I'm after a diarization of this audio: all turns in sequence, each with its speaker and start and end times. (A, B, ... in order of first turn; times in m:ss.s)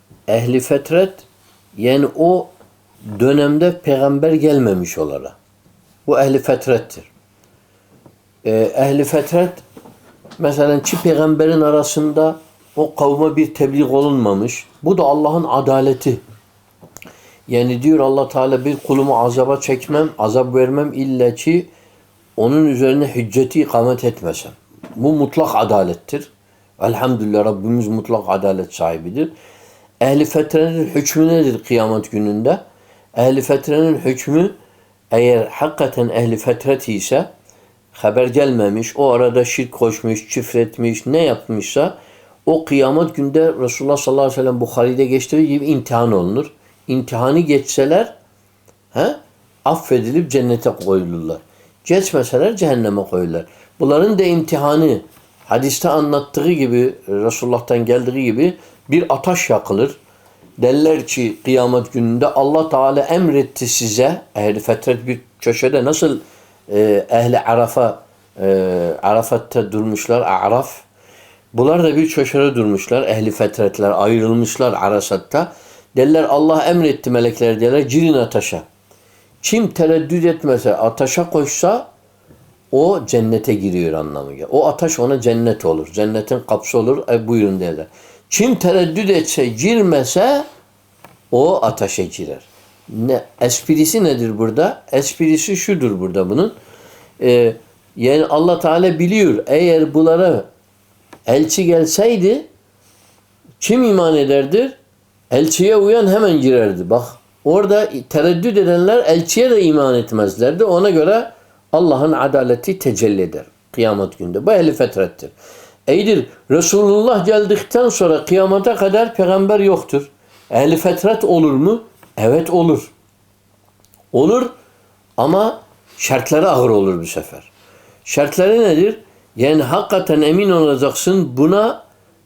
0:00.3-0:02.5 A
0:03.1-0:05.3 A
0:06.0-0:07.1 A
0:08.4-0:09.6 A
0:10.4-0:16.2 A
0:17.5-0:21.7 A
0:22.4-0:29.3 A
0:30.0-0:32.6 A
0:33.2-0:34.5 A
0:35.1-0:37.3 A
0:37.9-0:41.9 A
0:42.5-0:48.1 A
0:48.9-1:00.0 A
1:00.6-1:10.8 A
1:11.5-1:18.6 A
1:19.4-1:21.8 A
1:22.7-1:30.4 A
1:31.3-1:36.5 A
1:37.2-1:40.5 A
1:41.3-1:42.5 A
1:43.6-1:44.8 A
1:45.3-1:55.3 A
1:55.9-2:02.9 A
2:04.1-2:04.5 A
2:05.2-2:07.5 A
2:08.0-2:11.8 A